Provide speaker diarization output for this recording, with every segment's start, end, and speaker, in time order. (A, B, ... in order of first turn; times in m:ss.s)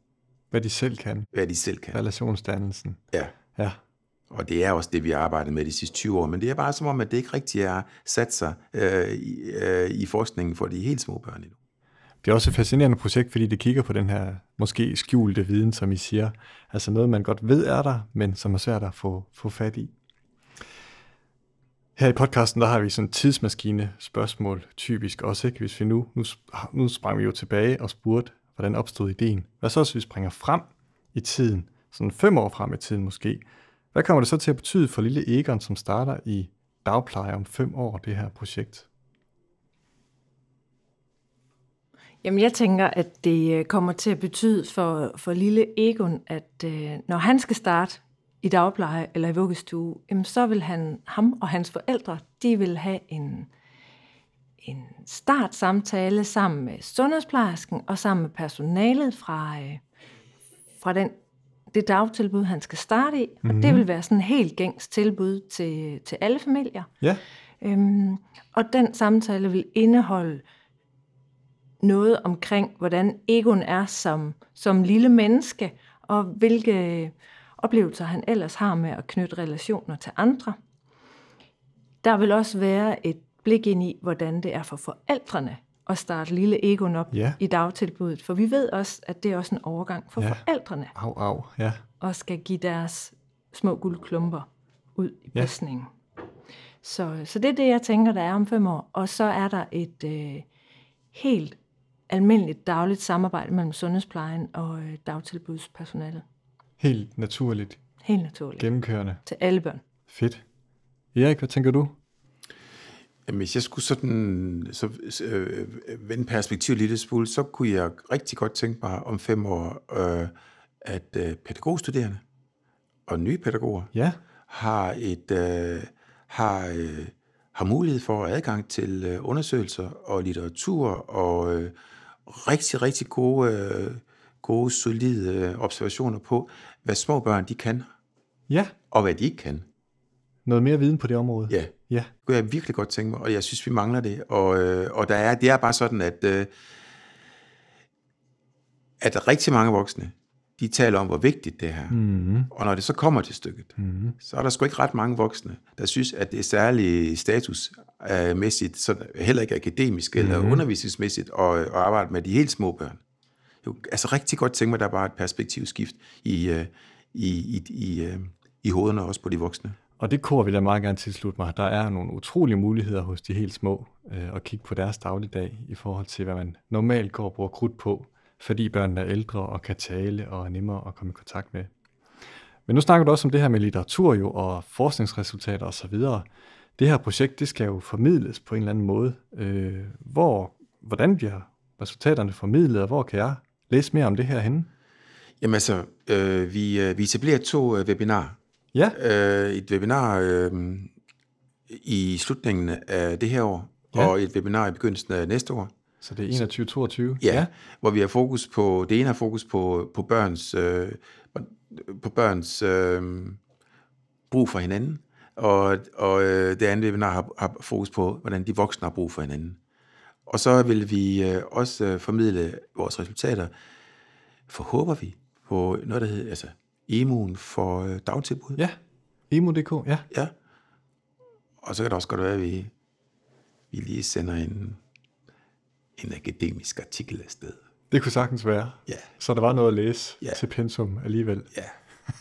0:00.5-0:01.3 A
0:01.3-0:02.0 B
0:01.9-0:03.0 A
0:04.3-0:11.6 B
0:12.2-0:19.9 A
0:22.0-0:38.9 A
0:42.2-0:53.5 C
0:54.6-0:59.8 C
1:00.8-1:01.1 C
1:01.7-1:06.9 C
1:03.4-1:03.8 A
1:07.6-1:10.4 C
1:11.8-1:20.6 C
1:22.0-1:30.9 C
1:27.1-1:27.4 A
1:30.2-1:30.4 A
1:31.0-1:31.8 A
1:32.0-1:35.9 C
1:36.8-1:40.5 C
1:41.1-1:41.6 C
1:42.1-1:46.2 C
1:46.8-1:47.8 A
1:48.0-1:48.7 C
1:48.6-1:49.2 A
1:49.2-1:49.8 C
1:50.1-1:50.4 A
1:51.1-1:52.0 A
1:53.3-2:02.2 B
2:03.1-2:03.9 B
2:03.9-2:04.2 A
2:04.5-2:11.8 B
2:12.3-2:17.9 B
2:18.9-2:19.6 B
2:20.4-2:22.1 A
2:21.5-2:26.5 B
2:29.0-2:32.0 B
2:31.9-2:32.5 A
2:32.5-2:43.0 B
2:33.8-2:34.2 A
2:40.2-2:40.6 A
2:43.6-2:49.8 B
2:50.0-3:01.7 A
3:02.7-3:06.2 A
3:06.8-3:14.7 A
3:15.4-3:18.4 B
3:18.9-3:20.9 B
3:21.7-3:25.7 B
3:26.0-3:27.5 A
3:27.2-3:33.4 B
3:34.3-3:39.6 B
3:40.3-3:43.5 B
3:44.5-3:48.6 B
3:49.3-3:50.0 A
3:51.6-3:52.7 B
3:53.7-3:54.8 B
3:56.0-3:57.6 B
3:57.9-4:01.5 A